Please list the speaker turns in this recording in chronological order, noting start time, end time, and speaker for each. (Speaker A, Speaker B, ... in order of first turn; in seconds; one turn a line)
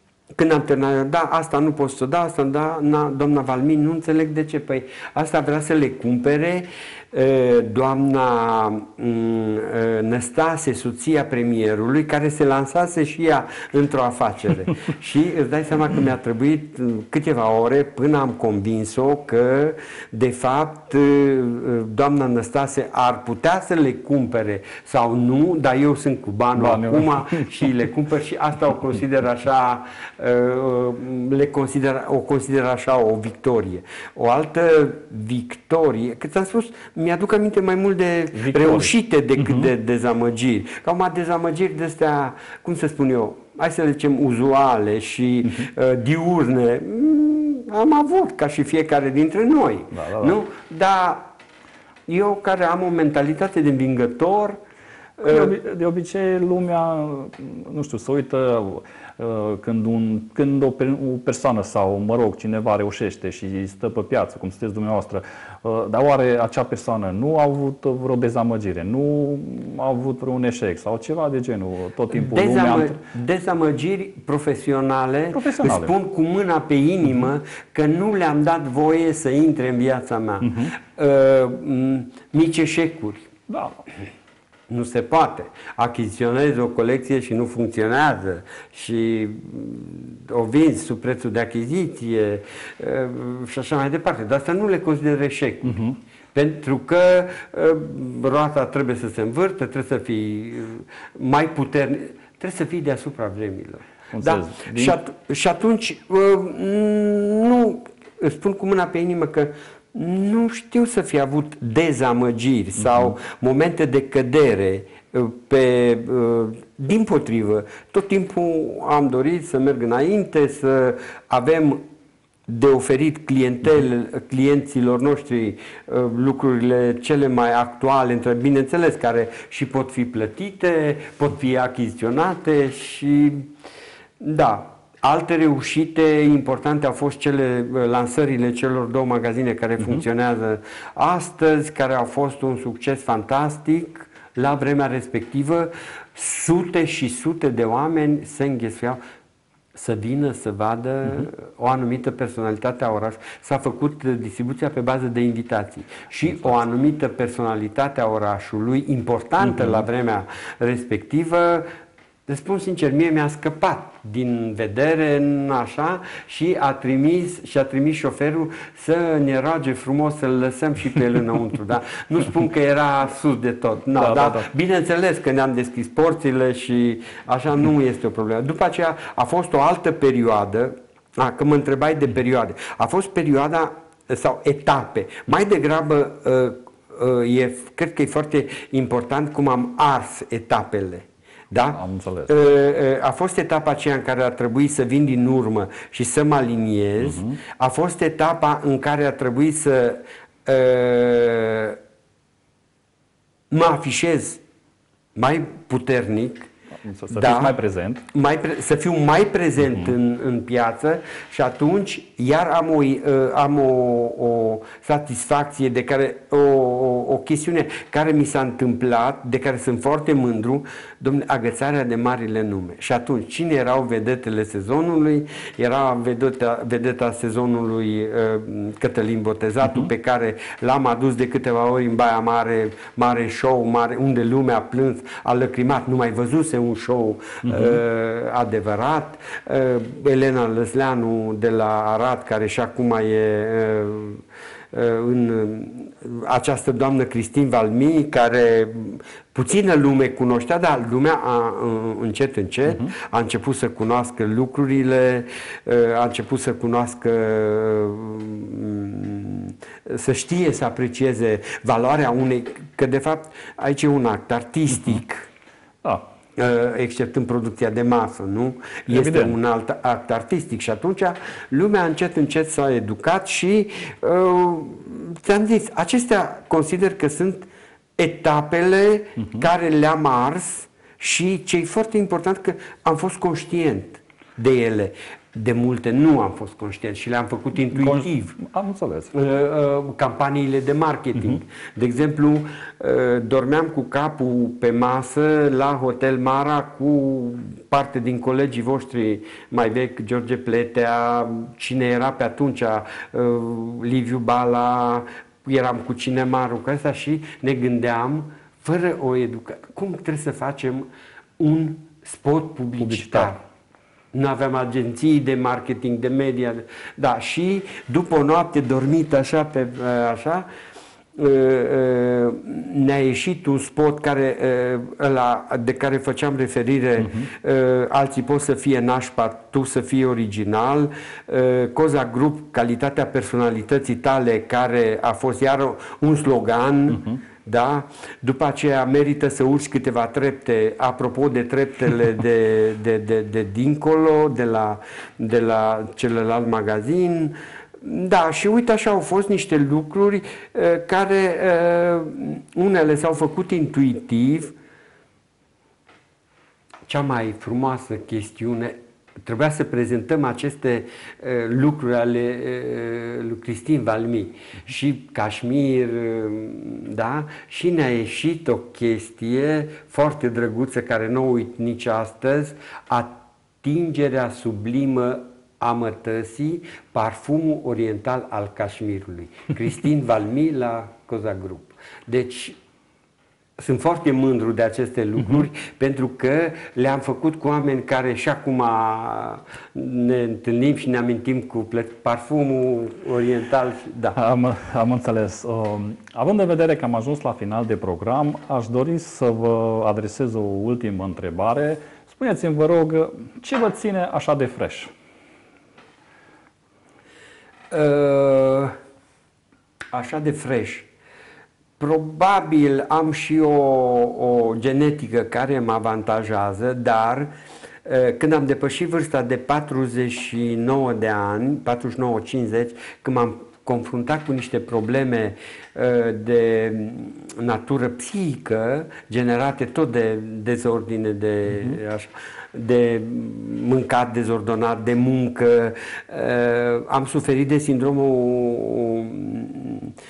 Speaker A: 0.3-51.3
Speaker B: 26.6-27.6
Speaker B: 38.3-39.7
Speaker B: 49.9-50.4
Speaker A: 52.1-54.6
Speaker A: 55.2-55.5
Speaker B: 55.2-73.0
Speaker A: 72.1-83.3
Speaker B: 75.3-75.9
Speaker B: 80.4-80.7
Speaker B: 83.5-83.8
Speaker A: 84.7-121.8
Speaker B: 95.7-96.0
Speaker B: 104.1-105.0
Speaker A: 122.5-133.5
Speaker A: 134.2-149.0
Speaker A: 149.7-161.7
Speaker A: 162.3-201.8
Speaker B: 173.9-174.5
Speaker B: 191.7-192.3
Speaker B: 197.0-197.4
Speaker A: 203.5-204.4
Speaker A: 205.1-206.5
Speaker B: 206.8-208.0
Speaker A: 207.1-207.6
Speaker A: 208.1-265.3
Speaker B: 237.4-237.8
Speaker A: 266.4-288.4
Speaker B: 268.9-269.4
Speaker B: 287.7-289.1
Speaker A: 289.1-310.9
Speaker A: 311.4-313.4
Speaker B: 312.8-313.3
Speaker A: 314.1-320.4
Speaker A: 321.1-354.5
Speaker A: 356.9-382.6
Speaker A: 383.6-394.2
Speaker B: 394.1-404.9
Speaker A: 407.7-408.8
Speaker A: 409.9-410.9
Speaker A: 411.8-417.3
Speaker A: 417.8-439.9